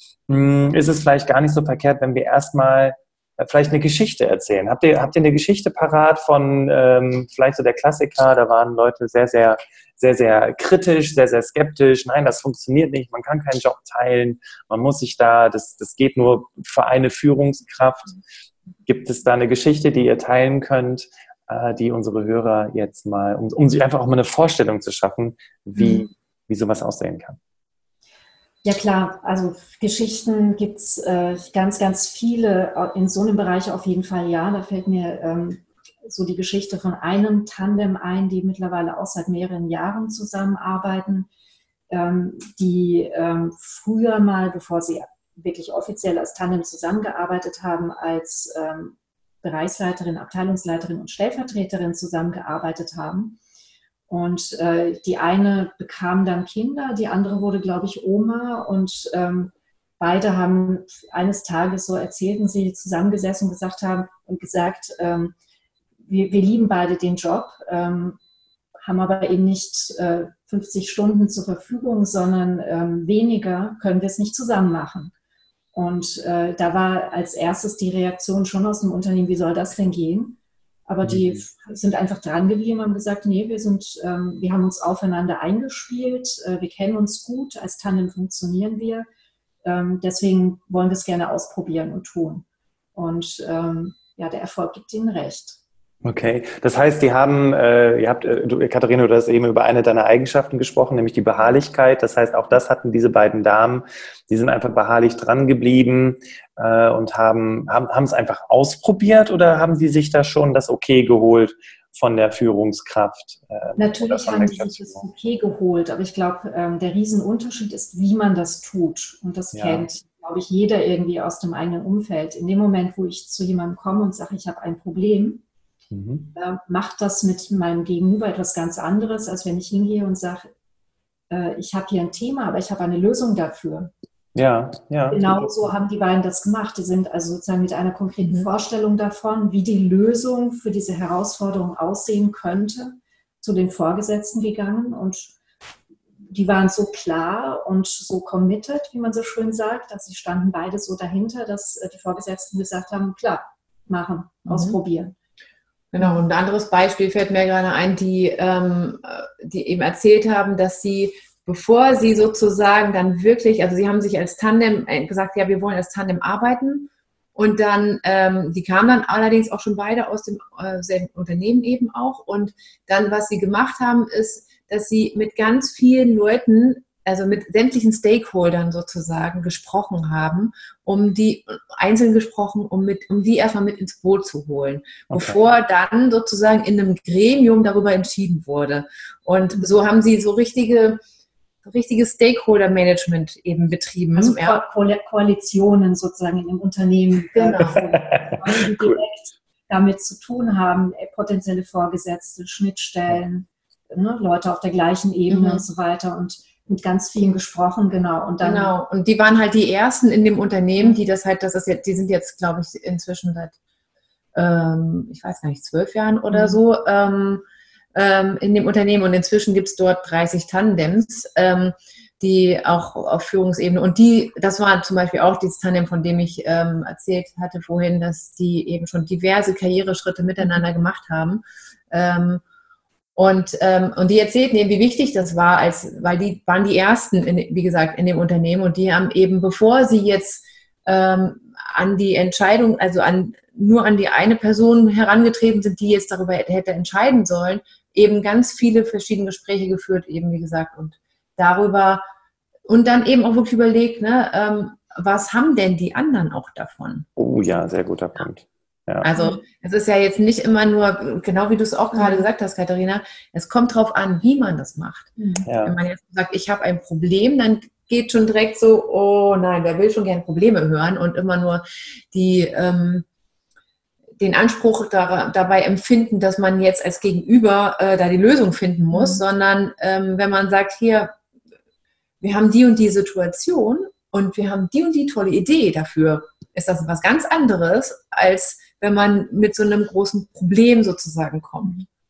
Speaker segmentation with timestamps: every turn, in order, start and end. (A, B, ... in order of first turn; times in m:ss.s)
0:00.3-0:18.2 A
0:18.8-0:27.4 A
0:25.8-0:26.0 B
0:28.6-0:41.3 B
0:41.9-0:53.4 B
0:54.1-1:05.3 B
1:06.0-1:08.2 B
1:08.8-1:15.1 B
1:15.7-1:29.1 B
1:21.0-1:21.4 A
1:29.6-1:35.6 B
1:36.0-1:55.0 A
1:53.8-2:05.4 B
1:59.5-1:59.9 A
2:05.9-2:06.3 A
2:06.3-2:10.5 B
2:11.3-2:13.9 B
2:14.3-2:15.7 A
2:15.1-2:25.3 B
2:26.3-2:35.1 B
2:34.5-2:34.8 C
2:35.9-3:11.0 C
3:05.1-3:05.4 A
3:11.6-3:14.6 C
3:14.1-3:28.7 B
3:17.3-3:17.9 C
3:18.0-3:18.4 A
3:25.3-3:25.6 C
3:28.4-3:33.5 C
3:34.3-3:52.4 C
3:36.3-3:36.6 B
3:53.2-4:12.0 C
4:12.7-4:17.1 C
4:17.2-4:19.1 A
4:19.0-4:33.0 C
4:19.1-4:19.4 B
4:21.9-4:22.3 B
4:25.2-4:25.4 B
4:25.4-4:25.8 A
4:34.2-4:41.1 C
4:38.9-4:39.2 B
4:42.2-4:51.8 C